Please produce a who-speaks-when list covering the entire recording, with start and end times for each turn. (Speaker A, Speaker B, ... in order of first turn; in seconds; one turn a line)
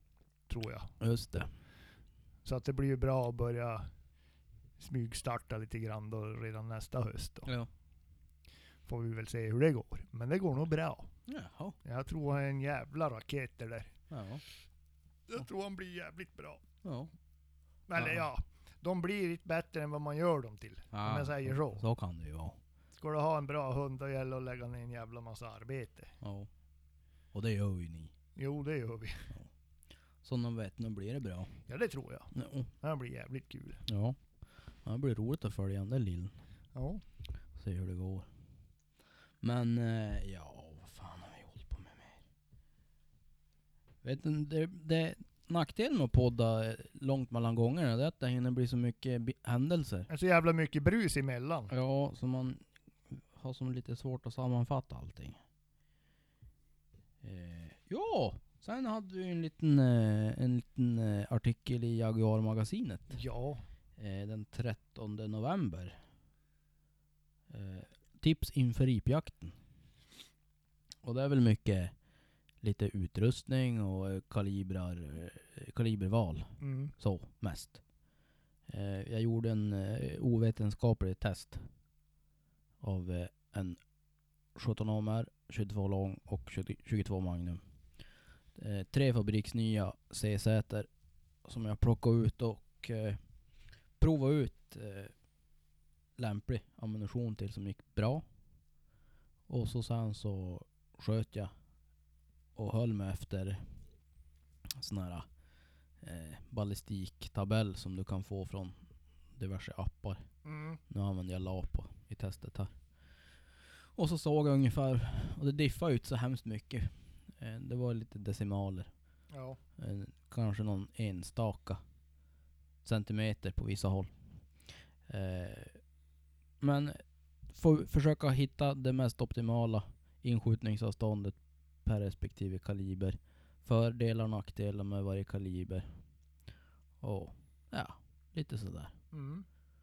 Speaker A: 0.5-0.9
Speaker B: 1.0-1.5
Speaker A: 2.5-3.9
Speaker A: 4.8-7.5
Speaker A: 8.9-11.1
Speaker B: 11.3-11.8
Speaker A: 11.8-13.9
Speaker B: 14.1-14.4
Speaker A: 15.3-16.6
Speaker B: 16.8-17.1
Speaker A: 17.9-21.9
Speaker B: 18.0-18.2
Speaker B: 20.9-22.6
Speaker A: 23.0-26.1
Speaker B: 26.2-26.5
Speaker B: 27.3-28.1
Speaker A: 28.4-29.3
Speaker B: 30.2-31.6
Speaker A: 31.7-33.8
Speaker B: 32.3-32.7
Speaker B: 33.9-34.2
Speaker B: 34.8-36.4
Speaker A: 36.8-37.0
Speaker B: 37.6-38.3
Speaker B: 39.4-42.2
Speaker B: 44.0-50.1
Speaker A: 50.1-51.7
Speaker B: 51.7-55.4
Speaker B: 57.2-63.2
Speaker A: 63.1-63.6
Speaker B: 64.0-66.0
Speaker B: 67.5-69.6
Speaker B: 71.0-71.9
Speaker B: 72.6-77.8
Speaker A: 76.6-76.9
Speaker B: 78.7-81.6
Speaker B: 82.8-83.8
Speaker B: 84.5-87.6
Speaker B: 88.6-90.9
Speaker B: 91.5-93.2
Speaker B: 94.0-95.1
Speaker B: 96.2-98.2
Speaker B: 99.5-101.5
Speaker B: 102.6-103.6
Speaker B: 104.8-105.3
Speaker B: 106.0-108.8
Speaker B: 109.4-110.2
Speaker A: 110.5-110.8
Speaker B: 110.9-112.7
Speaker B: 114.0-118.9
Speaker A: 119.3-119.6
Speaker B: 119.8-121.8
Speaker B: 122.8-124.1
Speaker B: 125.1-125.8
Speaker B: 126.6-135.9
Speaker B: 137.0-138.9
Speaker A: 139.1-139.5